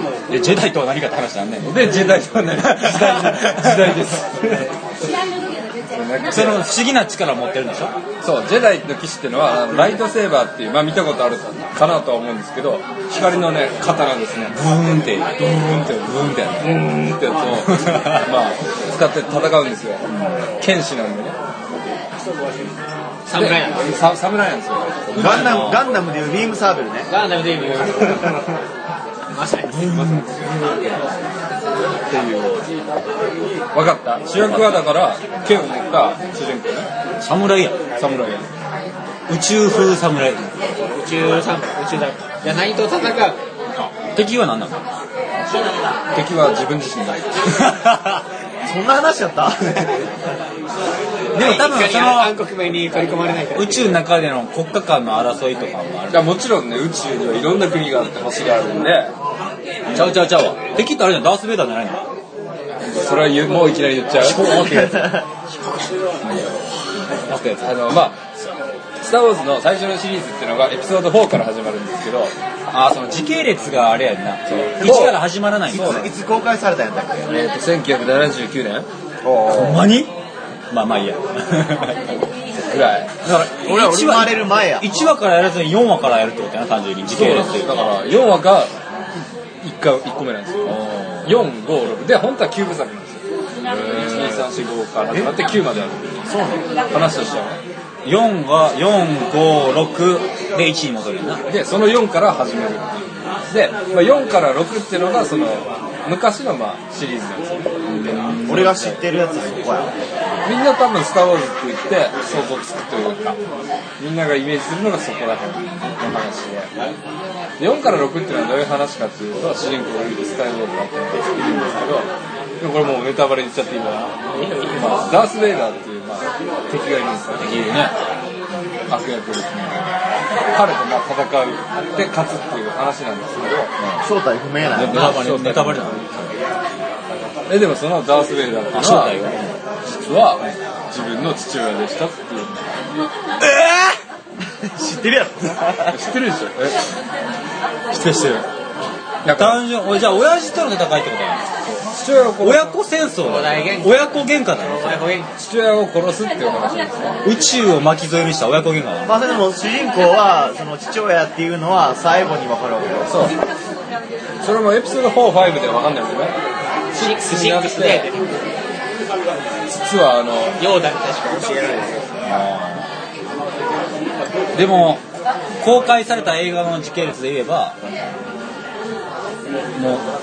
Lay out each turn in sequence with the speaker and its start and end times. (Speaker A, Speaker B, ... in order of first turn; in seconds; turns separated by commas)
Speaker A: 0.3-2.0, Speaker B: 1.6-4.7, Speaker A: 2.6-4.1, Speaker B: 5.9-6.7, Speaker A: 6.2-8.0, Speaker B: 8.2-14.6, Speaker A: 14.5-16.8, Speaker B: 15.4-20.1, Speaker A: 17.7-18.2, Speaker A: 20.1-20.4, Speaker B: 20.6-21.4, Speaker C: 23.2-24.0, Speaker B: 23.3-25.8, Speaker A: 25.1-25.8, Speaker D: 25.1-27.1, Speaker C: 27.1-28.4, Speaker C: 29.3-29.9, Speaker A: 29.7-30.2, Speaker B: 29.8-30.7, Speaker B: 32.1-32.6, Speaker B: 33.7-36.9, Speaker A: 34.4-34.8, Speaker A: 37.2-37.8, Speaker B: 38.0-38.5, Speaker A: 39.3-40.6, Speaker C: 40.9-43.4, Speaker A: 44.0-44.8, Speaker B: 46.1-47.4, Speaker A: 47.5-48.2, Speaker D: 48.6-50.1, Speaker A: 51.3-52.4, Speaker C: 51.3-53.9, Speaker A: 53.5-56.3, Speaker B: 56.1-59.1, Speaker A: 59.9-62.0, Speaker B: 62.9-64.6, Speaker A: 64.2-65.1, Speaker D: 64.3-65.2, Speaker B: 67.3-68.2, Speaker B: 69.0-72.3, Speaker A: 72.7-76.1, Speaker B: 74.8-75.2, Speaker B: 75.7-76.1, Speaker D: 75.7-77.3, Speaker B: 77.2-79.8, Speaker D: 79.2-79.7, Speaker A: 79.5-80.1, Speaker A: 80.7-82.1, Speaker B: 82.7-83.1, Speaker D: 83.2-84.9, Speaker A: 83.3-87.9, Speaker B: 87.1-88.7, Speaker B: 89.6-96.2, Speaker A: 90.7-91.3, Speaker D: 93.9-94.4, Speaker D: 96.2-96.7, Speaker B: 96.9-97.6, Speaker A: 98.0-101.4, Speaker B: 101.5-107.7, Speaker A: 107.9-108.7, Speaker D: 108.4-109.9, Speaker B: 108.5-109.0, Speaker B: 110.4-113.4, Speaker B: 114.0-116.7, Speaker B: 117.6-122.1, Speaker B: 122.6-124.2, Speaker C: 124.3-125.1, Speaker B: 124.7-127.7, Speaker A: 127.4-127.9, Speaker B: 128.9-129.8, Speaker B: 130.5-133.7, Speaker D: 134.0-135.3, Speaker B: 134.7-136.0, Speaker A: 134.8-136.3, Speaker B: 137.5-139.2, Speaker A: 138.7-139.5, Speaker B: 139.8-142.7, Speaker D: 143.4-144.0, Speaker D: 144.6-146.0, Speaker B: 145.9-146.8, Speaker A: 147.9-148.5, Speaker B: 149.2-149.6, Speaker A: 149.2-151.4, Speaker B: 151.6-152.8, Speaker A: 152.4-155.1, Speaker C: 153.2-155.3, Speaker B: 155.4-157.2, Speaker A: 157.2-159.1, Speaker D: 159.0-163.1, Speaker B: 163.1-163.3, Speaker B: 164.4-166.4, Speaker B: 166.9-168.1, Speaker C: 166.9-168.4, Speaker B: 169.7-170.6, Speaker C: 170.6-172.2, Speaker A: 172.2-172.9, Speaker A: 174.5-175.0, Speaker A: 175.6-177.8, Speaker A: 179.8-180.1